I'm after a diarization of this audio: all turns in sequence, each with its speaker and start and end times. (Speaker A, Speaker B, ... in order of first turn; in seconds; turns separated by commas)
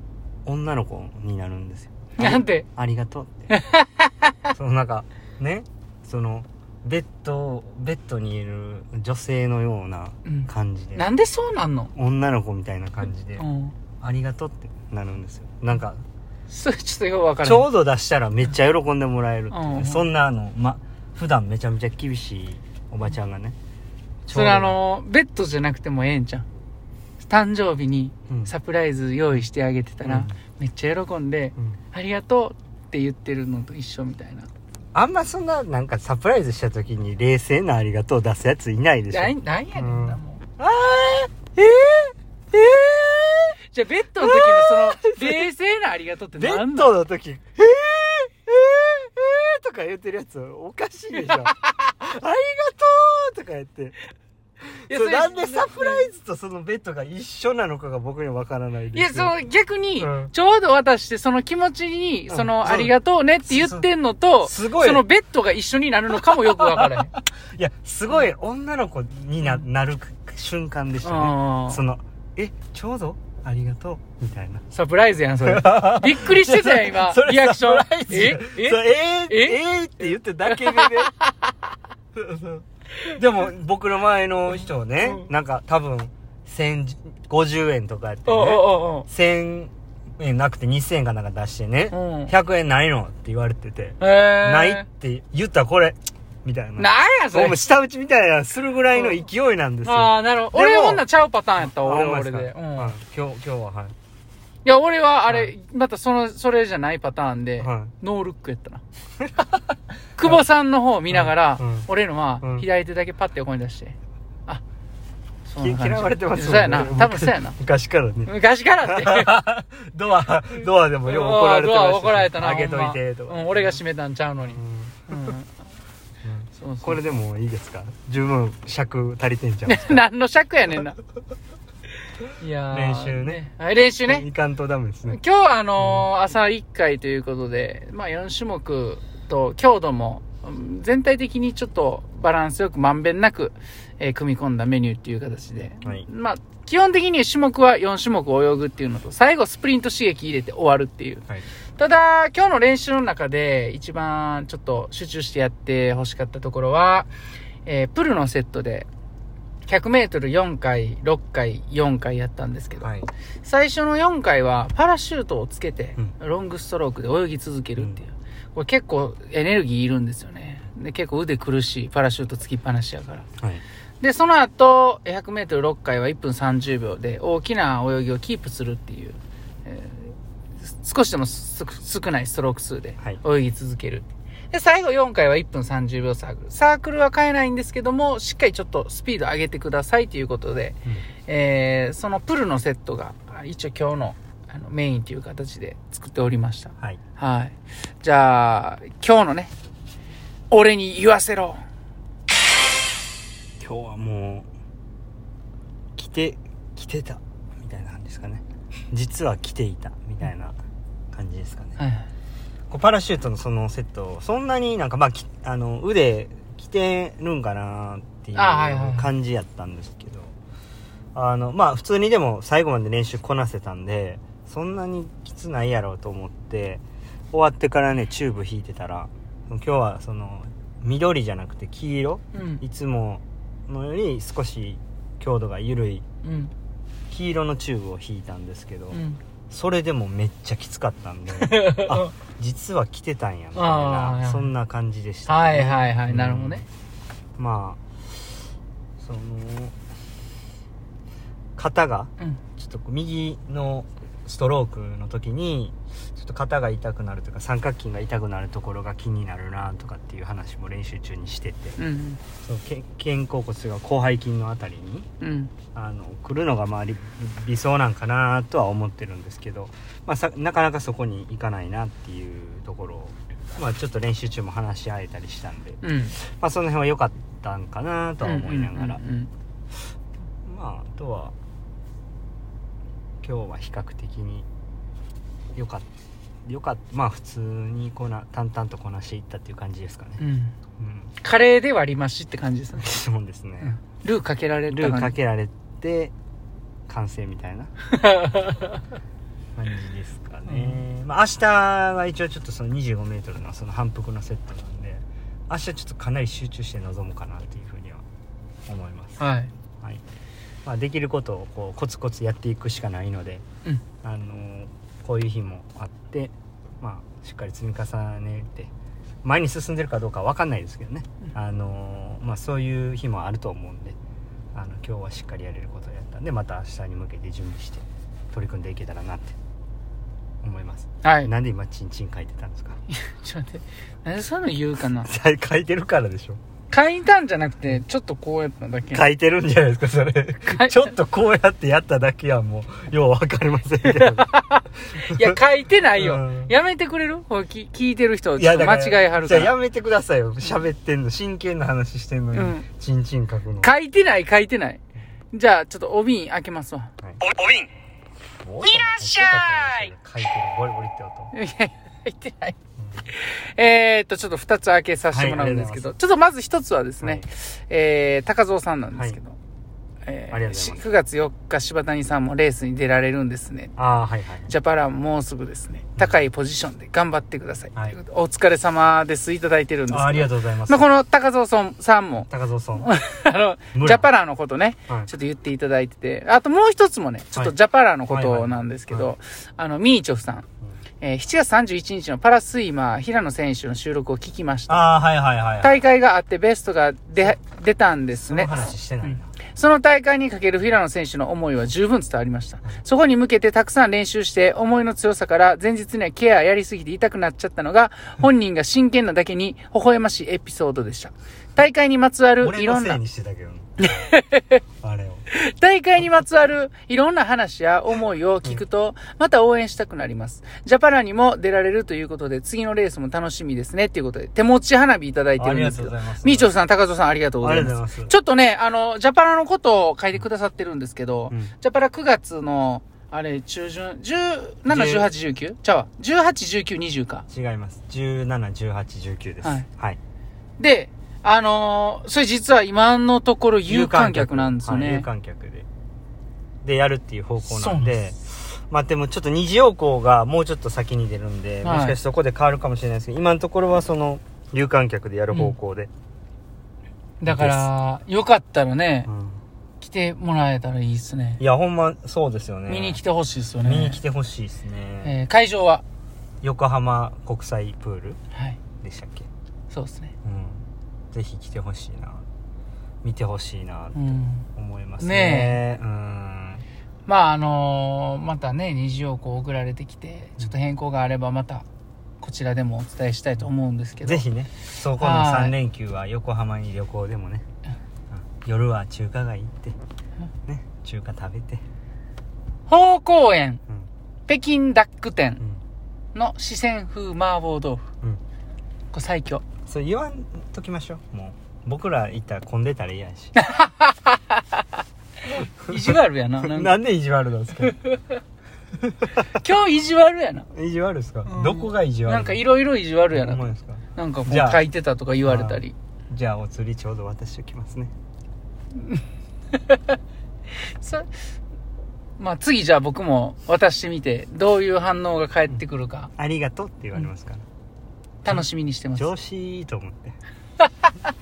Speaker A: 0.5-3.5, Speaker B: 2.2-2.7, Speaker B: 3.5-4.3, Speaker A: 4.5-11.1, Speaker B: 10.3-11.9, Speaker A: 11.9-13.4, Speaker B: 13.4-13.8, Speaker A: 14.0-16.0, Speaker B: 16.5-17.7, Speaker A: 17.4-23.6, Speaker B: 19.5-20.1, Speaker A: 24.2-24.8, Speaker B: 24.3-26.5, Speaker B: 27.2-34.5, Speaker A: 28.3-28.5, Speaker A: 30.0-30.4, Speaker A: 35.0-43.6, Speaker B: 39.1-40.4, Speaker B: 43.7-46.9, Speaker A: 44.2-45.5, Speaker A: 46.4-54.0, Speaker B: 51.1-51.9, Speaker A: 54.7-59.3, Speaker B: 54.9-56.1, Speaker B: 58.9-67.1, Speaker A: 60.0-60.3, Speaker A: 62.3-62.9, Speaker A: 63.5-63.9, Speaker A: 64.4-65.1, Speaker A: 66.2-74.7, Speaker B: 71.0-71.8, Speaker B: 74.7-79.6, Speaker A: 75.4-81.1, Speaker B: 80.5-81.3, Speaker A: 82.2-101.0, Speaker B: 88.3-89.1, Speaker B: 91.9-92.3, Speaker B: 94.0-94.8, Speaker B: 96.8-97.6, Speaker B: 99.8-102.9, Speaker A: 101.6-103.9, Speaker B: 104.7-108.8, Speaker A: 107.6-107.9, Speaker B: 110.2-114.0, Speaker A: 111.1-111.9, Speaker A: 112.4-112.7, Speaker B: 115.5-117.6, Speaker A: 115.6-118.3, Speaker B: 118.3-119.4, Speaker A: 118.8-123.8, Speaker B: 121.0-125.5, Speaker A: 124.4-125.3, Speaker A: 126.2-130.0, Speaker B: 126.6-127.0, Speaker B: 129.7-131.0, Speaker B: 132.4-134.3, Speaker A: 132.7-133.4, Speaker A: 134.0-135.2, Speaker B: 135.1-151.3, Speaker A: 135.8-136.1, Speaker B: 151.8-157.1, Speaker B: 157.7-158.9, Speaker B: 159.7-162.9, Speaker A: 162.8-163.1, Speaker B: 163.4-173.3, Speaker B: 174.0-199.5, Speaker B: 200.5-201.6, Speaker A: 203.6-204.5, Speaker A: 206.0-210.6, Speaker A: 211.1-211.8, Speaker B: 211.8-212.1, Speaker A: 212.7-220.3, Speaker B: 218.3-219.1, Speaker A: 221.2-236.1, Speaker B: 232.3-232.6, Speaker B: 236.2-236.5, Speaker A: 237.1-246.7, Speaker B: 238.9-239.2, Speaker B: 241.4-242.1, Speaker B: 243.6-244.5, Speaker B: 245.3-246.7, Speaker A: 247.4-247.8, Speaker A: 249.0-249.8, Speaker A: 251.6-261.8, Speaker B: 261.8-262.2, Speaker A: 262.4-265.1, Speaker B: 265.2-265.5, Speaker A: 265.7-279.0, Speaker B: 275.8-276.2, Speaker B: 278.2-279.3, Speaker A: 280.5-281.3, Speaker A: 283.2-284.5, Speaker A: 285.6-285.9, Speaker A: 286.5-290.2, Speaker B: 290.2-290.6, Speaker A: 290.8-291.1, Speaker B: 291.2-292.9, Speaker A: 292.8-293.8, Speaker B: 293.6-295.1, Speaker A: 294.7-296.1, Speaker A: 296.9-297.7, Speaker B: 298.0-298.7, Speaker A: 299.6-308.0, Speaker B: 300.5-300.8, Speaker A: 308.7-309.2, Speaker B: 309.2-309.5, Speaker A: 310.6-313.4, Speaker A: 314.0-318.7, Speaker A: 319.2-324.0, Speaker A: 324.5-329.4, Speaker A: 330.4-332.8, Speaker B: 331.0-331.3, Speaker B: 332.9-335.1, Speaker A: 335.0-336.4, Speaker B: 336.7-339.0, Speaker A: 338.9-344.3, Speaker B: 340.5-340.9, Speaker B: 343.8-349.5, Speaker A: 345.0-345.3, Speaker A: 345.9-346.5, Speaker A: 348.4-353.7, Speaker B: 352.3-352.6, Speaker B: 353.6-354.8, Speaker B: 355.3-356.9, Speaker A: 357.0-357.4, Speaker A: 358.4-361.3, Speaker B: 358.6-359.9, Speaker B: 361.3-362.6, Speaker B: 363.1-369.4, Speaker A: 365.1-365.9, Speaker B: 370.1-373.7, Speaker A: 370.3-370.9, Speaker A: 373.8-374.5, Speaker B: 374.5-390.5, Speaker A: 379.9-380.9, Speaker A: 382.3-382.9, Speaker A: 383.7-384.1, Speaker A: 388.1-389.1, Speaker B: 391.0-394.9, Speaker A: 394.7-395.8, Speaker B: 395.6-398.5, Speaker A: 398.1-399.4, Speaker B: 399.0-413.0, Speaker A: 412.4-414.1, Speaker B: 413.8-414.6, Speaker A: 414.8-415.2, Speaker B: 415.3-437.3, Speaker A: 425.4-426.5, Speaker A: 427.4-428.2, Speaker A: 434.7-435.1, Speaker A: 437.3-440.0, Speaker B: 440.6-445.1, Speaker A: 443.7-445.7, Speaker A: 446.6-455.9, Speaker B: 447.4-448.0, Speaker B: 451.6-452.0, Speaker B: 457.2-459.1, Speaker A: 457.2-457.7, Speaker A: 459.1-459.4, Speaker B: 459.8-461.4, Speaker A: 461.4-463.0, Speaker B: 462.7-464.0, Speaker A: 463.6-465.1, Speaker B: 465.0-465.8, Speaker A: 466.4-468.2, Speaker A: 468.8-469.3, Speaker B: 469.7-470.1, Speaker A: 470.2-472.2, Speaker A: 473.0-476.6, Speaker B: 473.9-474.5, Speaker B: 475.0-475.6, Speaker B: 477.1-481.7, Speaker B: 482.2-484.2, Speaker A: 484.0-487.4, Speaker B: 485.0-485.6, Speaker A: 488.1-489.8, Speaker A: 490.5-491.6, Speaker B: 492.7-493.6, Speaker B: 494.3-495.4, Speaker B: 496.1-497.9, Speaker B: 498.9-499.4, Speaker A: 499.7-503.4, Speaker B: 503.4-504.6, Speaker B: 505.3-506.7, Speaker A: 506.4-507.8, Speaker B: 507.6-508.2, Speaker A: 508.9-509.3, Speaker B: 509.4-510.5, Speaker A: 510.5-512.4, Speaker B: 511.3-513.5, Speaker A: 513.1-514.6, Speaker B: 514.0-515.7, Speaker A: 515.2-517.9, Speaker B: 519.7-520.0, Speaker B: 520.6-521.1, Speaker B: 522.2-526.1, Speaker A: 526.2-527.4, Speaker B: 528.2-529.1, Speaker A: 528.3-530.2